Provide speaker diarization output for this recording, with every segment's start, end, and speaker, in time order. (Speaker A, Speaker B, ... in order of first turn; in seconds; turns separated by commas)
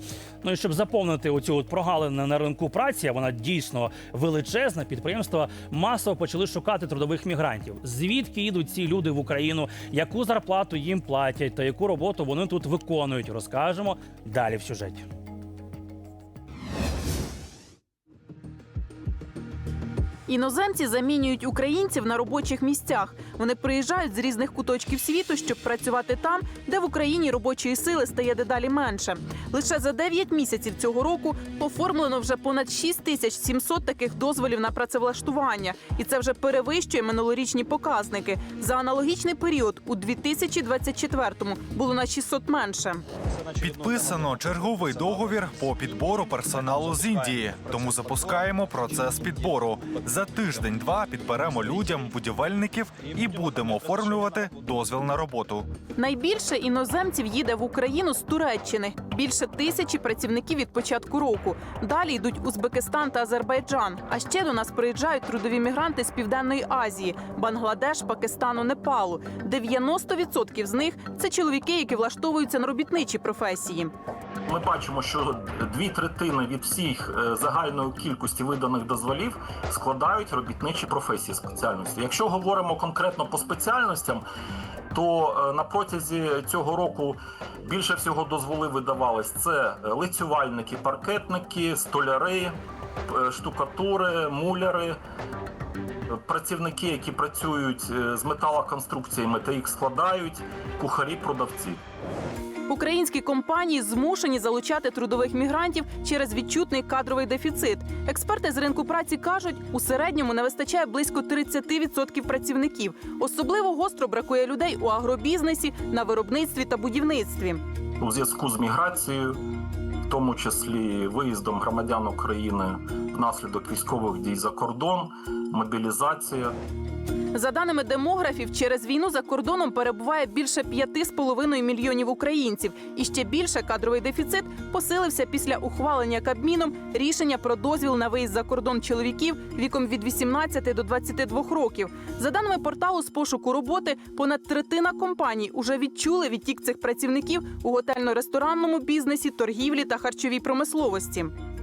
Speaker A: 0.4-15.1, Speaker B: 20.3-43.0, Speaker C: 43.6-55.7, Speaker B: 56.0-73.9, Speaker D: 74.5-84.2, Speaker D: 84.9-92.5, Speaker D: 93.1-95.0, Speaker D: 96.3-101.8, Speaker B: 102.7-117.6, Speaker D: 118.0-119.4, Speaker D: 120.1-126.5, Speaker B: 127.3-151.3